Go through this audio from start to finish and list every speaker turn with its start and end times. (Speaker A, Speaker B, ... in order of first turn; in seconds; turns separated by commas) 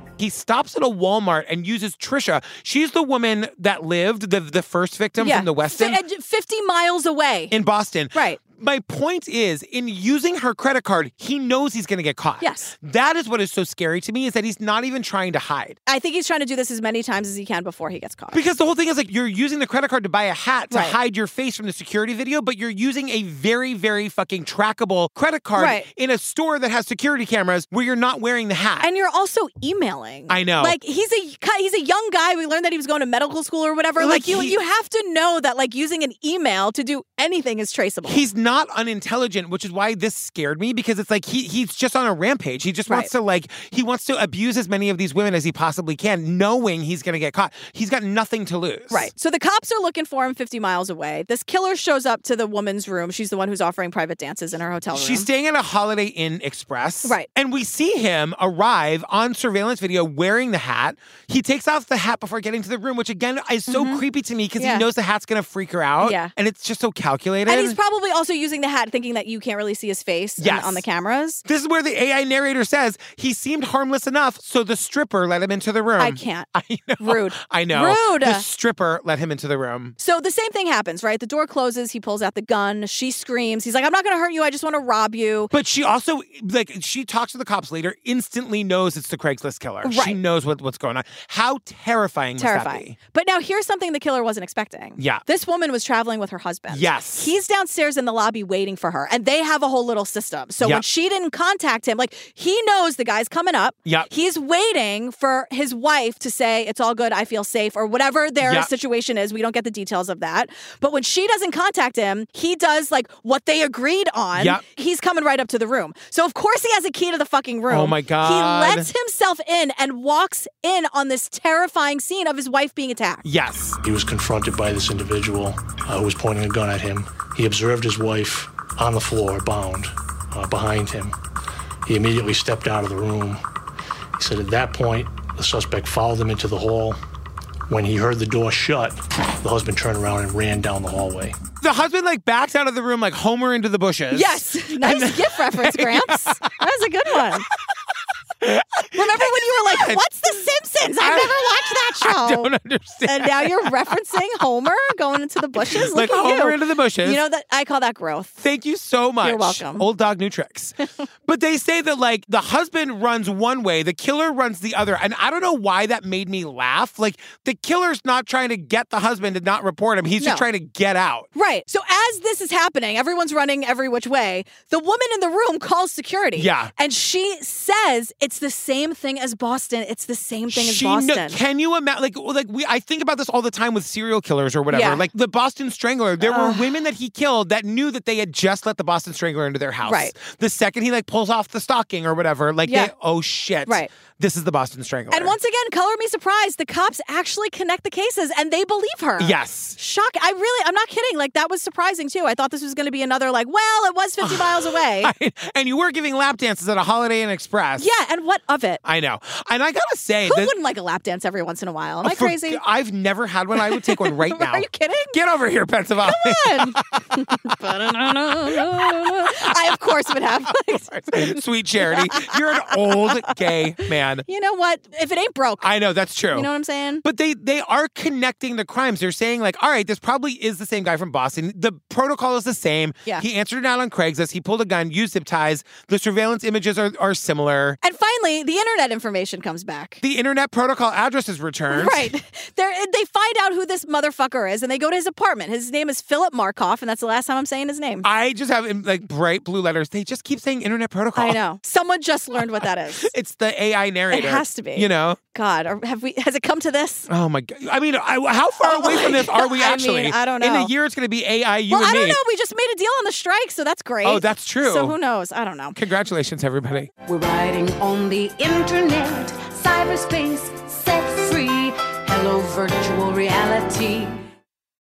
Speaker A: 0.2-6.0, Speaker B: 5.2-7.5, Speaker A: 7.5-15.8, Speaker B: 8.1-8.4, Speaker B: 12.4-12.7, Speaker B: 15.9-18.4, Speaker A: 18.3-28.9, Speaker B: 20.7-21.0, Speaker B: 25.6-25.9, Speaker B: 28.8-38.2, Speaker A: 30.3-30.8, Speaker A: 34.0-34.6, Speaker A: 38.0-49.1, Speaker B: 48.9-55.3, Speaker A: 54.9-67.8, Speaker B: 63.7-64.0, Speaker B: 64.6-64.9, Speaker B: 66.0-66.3, Speaker B: 67.5-71.4, Speaker A: 70.4-70.8, Speaker A: 71.5-80.0, Speaker B: 76.0-76.5, Speaker B: 77.0-78.5, Speaker B: 80.0-85.5, Speaker A: 85.5-93.0, Speaker B: 89.8-90.2, Speaker B: 92.4-123.2, Speaker A: 95.0-95.2, Speaker A: 96.7-97.3, Speaker A: 108.4-108.7, Speaker A: 114.3-114.6, Speaker A: 117.7-118.9, Speaker A: 123.2-123.8, Speaker C: 123.8-131.2, Speaker C: 131.9-133.4, Speaker C: 134.2-137.0, Speaker C: 137.7-141.4, Speaker A: 141.6-146.5, Speaker B: 144.1-147.5, Speaker A: 148.4-150.0, Speaker B: 148.9-152.5, Speaker A: 151.0-153.7, Speaker B: 153.1-158.3, Speaker A: 155.6-157.2, Speaker A: 158.4-171.3, Speaker B: 159.2-159.9, Speaker B: 170.2-170.4, Speaker B: 171.3-181.4, Speaker A: 176.4-176.7, Speaker A: 180.5-195.3, Speaker B: 184.7-185.0, Speaker B: 186.2-186.8, Speaker B: 189.8-190.1, Speaker B: 192.7-192.9, Speaker B: 195.1-205.1, Speaker A: 199.2-199.8, Speaker A: 204.2-207.9, Speaker B: 207.8-208.8, Speaker A: 208.8-210.5, Speaker B: 210.3-212.6, Speaker A: 212.0-224.2, Speaker B: 213.6-215.1, Speaker B: 216.0-223.3, Speaker B: 224.3-225.7, Speaker A: 225.6-226.5, Speaker B: 226.3-227.0, Speaker A: 227.0-237.8, Speaker B: 237.8-240.0, Speaker A: 240.0-242.1, Speaker B: 241.7-248.1, Speaker A: 248.0-251.4, Speaker B: 251.2-253.1, Speaker A: 253.0-255.2, Speaker B: 254.1-257.1, Speaker A: 257.1-262.2, Speaker B: 258.6-260.7, Speaker B: 261.7-265.8, Speaker A: 264.0-264.9, Speaker A: 265.8-266.9, Speaker D: 267.1-274.2